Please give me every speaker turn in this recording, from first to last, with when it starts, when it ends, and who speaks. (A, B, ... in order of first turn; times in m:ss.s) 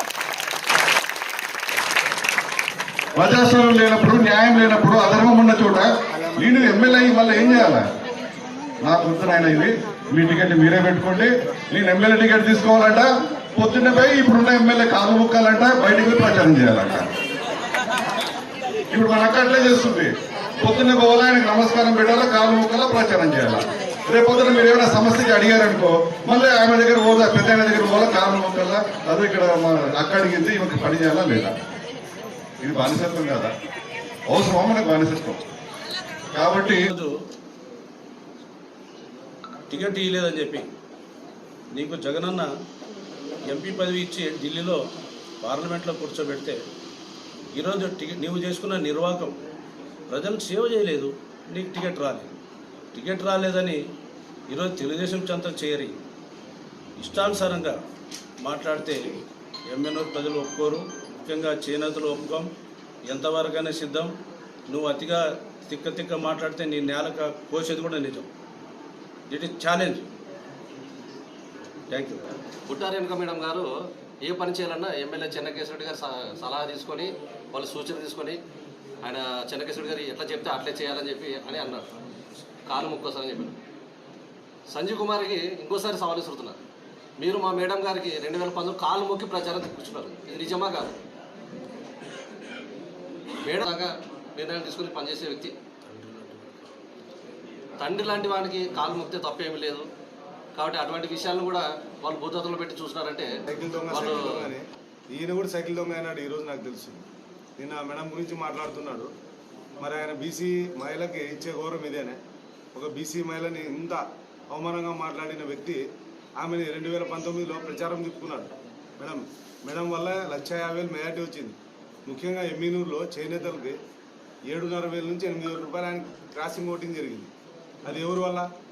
0:03.2-0:07.8 A
0:04.5-0:05.5 B
0:08.8-0:13.1 A
0:13.6-0:17.1 A
0:13.8-0:14.5 B
0:18.9-0:20.1 A
0:20.6-0:31.5 A
0:21.8-0:22.5 B
0:24.2-0:25.0 B
0:26.8-0:27.4 B
0:28.1-0:28.5 B
0:32.6-0:33.5 A
0:34.3-0:35.4 A
0:36.4-0:36.7 A
0:36.6-0:37.1 C
0:39.7-0:40.7 C
0:41.7-0:42.5 C
0:43.5-0:44.8 C
0:45.4-0:46.6 C
0:47.5-0:49.4 C
0:50.1-0:52.3 C
0:52.9-0:53.8 C
0:54.5-0:56.0 C
0:57.0-0:57.8 C
0:58.4-0:59.2 C
0:59.7-1:02.5 C
1:03.1-1:04.1 C
1:04.7-1:08.3 C
1:09.3-1:10.1 C
1:11.9-1:12.2 C
1:12.7-1:13.7 D
1:14.2-1:18.4 D
1:19.0-1:21.9 D
1:22.7-1:23.6 D
1:24.7-1:26.6 D
1:27.2-1:31.0 D
1:33.4-1:35.5 D
1:37.8-1:39.8 D
1:40.5-1:43.3 D
1:43.5-1:47.0 B
1:43.9-1:44.5 D
1:47.6-1:49.1 B
1:49.8-1:52.2 B
1:52.7-1:55.8 B
1:56.4-2:03.8 B
2:04.5-2:07.3 B
2:07.8-2:08.5 B